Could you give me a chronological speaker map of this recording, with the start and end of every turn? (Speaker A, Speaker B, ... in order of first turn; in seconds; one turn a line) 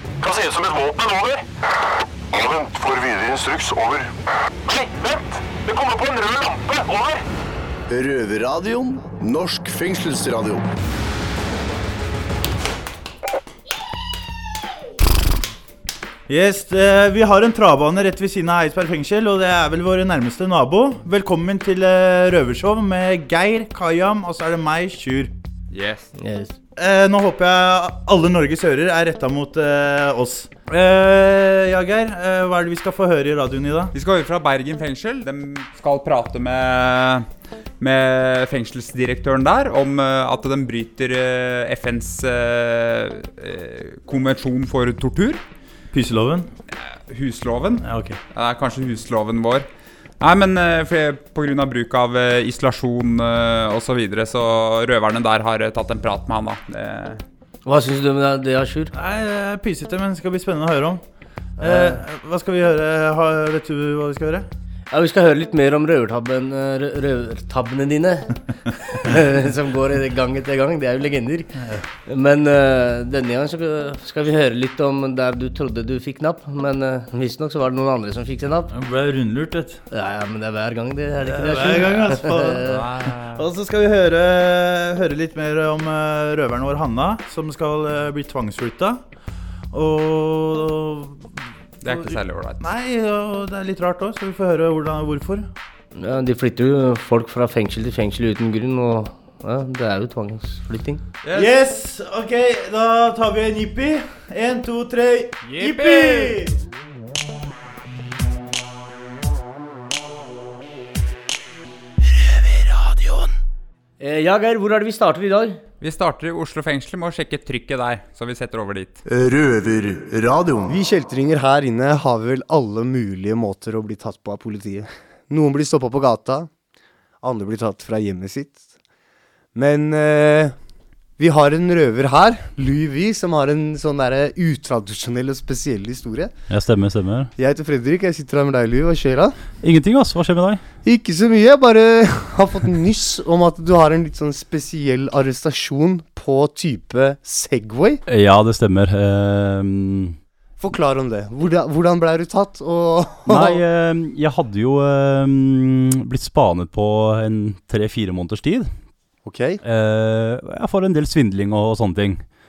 Speaker A: 0.2-1.4
Speaker A: 2.3-4.1
Speaker A: 4.7-7.2
Speaker B: 7.9-10.7
Speaker C: 16.3-25.3
Speaker D: 25.7-26.1
Speaker E: 26.2-26.5
Speaker C: 26.8-33.9
Speaker D: 33.9-37.2
Speaker D: 37.8-45.4
Speaker C: 45.9-46.5
Speaker D: 47.0-49.6
Speaker C: 47.8-48.2
Speaker D: 50.2-57.2
Speaker E: 57.6-58.9
Speaker C: 58.9-61.0
Speaker C: 61.6-64.5
Speaker E: 61.6-62.0
Speaker E: 64.9-68.3
Speaker E: 69.0-71.5
Speaker E: 72.0-78.7
Speaker C: 78.7-79.8
Speaker E: 79.9-82.7
Speaker C: 81.2-89.0
Speaker D: 82.7-83.4
Speaker C: 89.7-95.5
Speaker D: 91.8-92.6
Speaker E: 95.9-101.0
Speaker C: 101.2-106.5
Speaker D: 105.5-106.3
Speaker C: 112.5-113.2
Speaker E: 114.0-115.6
Speaker D: 115.8-119.0
Speaker B: 119.0-120.8
Speaker F: 120.7-126.5
Speaker F: 127.2-128.6
Speaker F: 129.5-130.5
Speaker F: 131.2-136.3
Speaker G: 136.5-137.3
Speaker F: 137.4-139.4
Speaker G: 139.6-140.6
Speaker F: 140.8-148.0
Speaker G: 148.1-150.2
Speaker F: 150.6-153.6
Speaker G: 153.3-158.7
Speaker F: 159.2-159.6
Speaker G: 159.6-162.2